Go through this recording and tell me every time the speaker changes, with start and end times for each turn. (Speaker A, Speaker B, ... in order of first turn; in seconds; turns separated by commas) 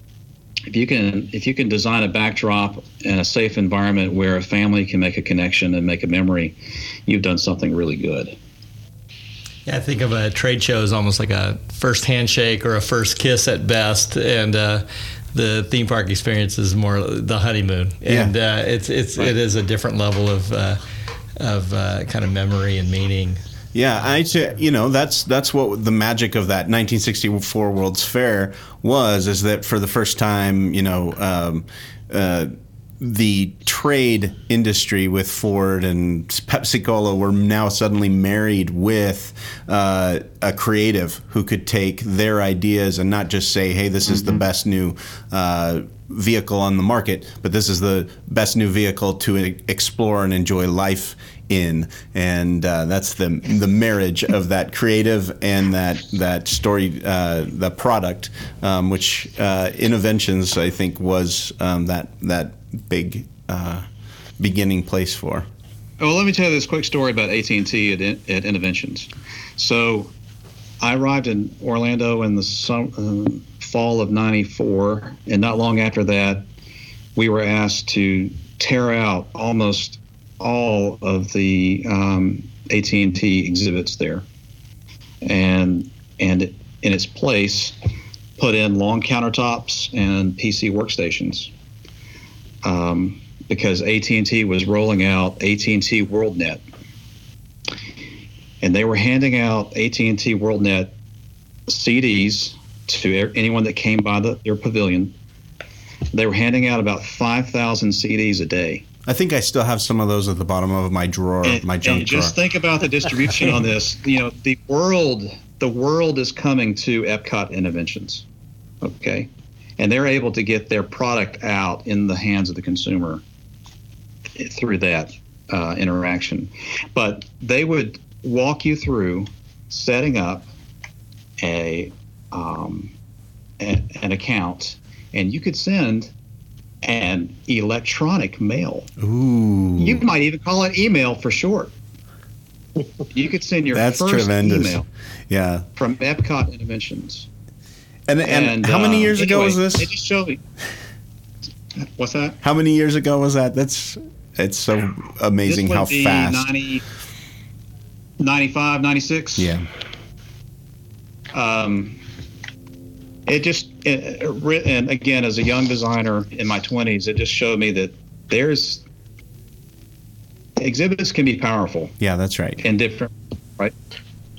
Speaker A: 0.7-8.4, Speaker B: 9.7-20.8, Speaker C: 18.1-18.3, Speaker B: 21.4-23.4, Speaker C: 23.8-63.9, Speaker C: 64.4-65.5, Speaker A: 66.0-70.1, Speaker A: 70.8-76.5, Speaker A: 77.2-84.3, Speaker A: 85.2-87.8, Speaker A: 88.4-91.5, Speaker A: 92.6-96.6, Speaker A: 98.6-101.0, Speaker A: 101.7-105.2, Speaker A: 106.1-108.9, Speaker C: 109.1-112.4, Speaker A: 111.4-118.3, Speaker A: 118.8-123.2, Speaker A: 124.4-130.5, Speaker A: 131.4-132.9, Speaker A: 133.6-136.1, Speaker A: 136.8-138.9, Speaker C: 139.0-140.1, Speaker A: 139.8-141.7, Speaker A: 143.1-144.9, Speaker C: 143.7-145.7, Speaker A: 145.8-147.3, Speaker C: 148.1-149.9, Speaker A: 148.2-150.4, Speaker A: 151.8-152.4, Speaker C: 152.4-156.5, Speaker A: 155.5-156.8, Speaker A: 158.2-159.5, Speaker C: 159.4-159.7, Speaker A: 161.3-162.0, Speaker A: 163.3-168.8, Speaker A: 170.6-171.9, Speaker C: 172.0-172.6, Speaker A: 172.6-173.7